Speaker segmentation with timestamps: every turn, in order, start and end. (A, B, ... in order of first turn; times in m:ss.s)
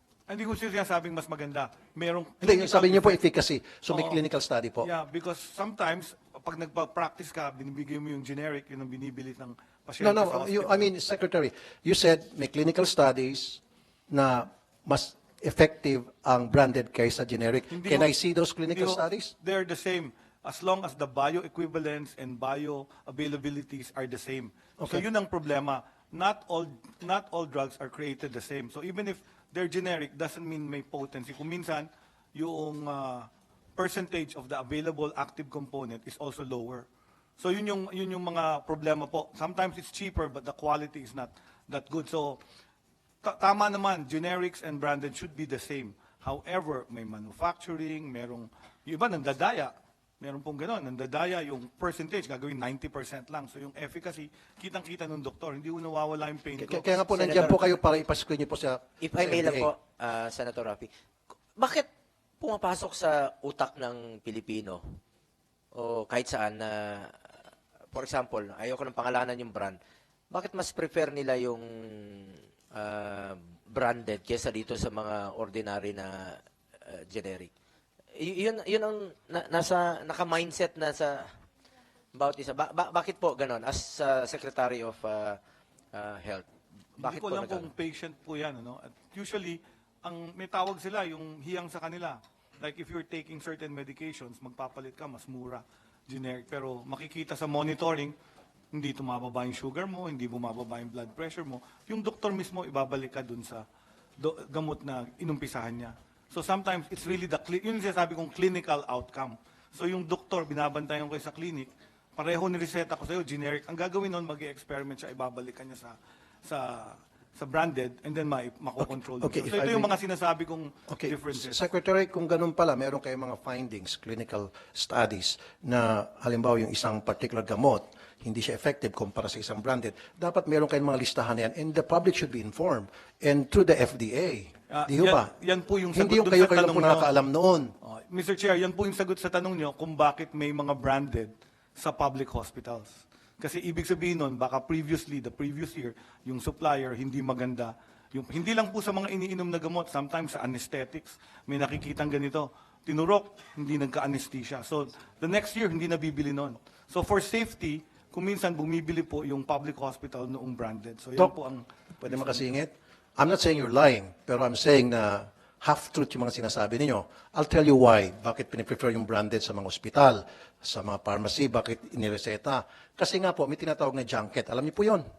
0:00.3-0:03.2 A
0:02.4-0:04.9 B
0:03.9-0:04.2 A
0:04.8-0:10.9 A
0:10.0-0:19.3 B
0:17.7-0:18.1 A
0:18.7-0:36.9 A
0:37.4-0:42.4 A
0:43.2-0:57.0 A
0:56.6-0:59.7 B
0:57.1-0:57.7 C
0:59.0-1:00.9 C
1:01.6-1:01.9 C
1:02.4-1:05.0 C
1:05.7-1:07.3 C
1:07.9-1:09.8 C
1:10.3-1:17.5 C
1:18.2-1:21.3 C
1:22.1-1:25.4 C
1:25.9-1:26.5 C
1:27.0-1:38.2 A
1:27.0-1:27.7 C
1:38.7-1:43.6 A
1:44.2-2:01.6 A
1:58.8-1:59.9 B
2:00.9-2:15.3 B
2:14.7-2:17.1 A
2:15.9-2:17.7 B
2:17.8-2:42.4 A
2:42.0-2:55.0 B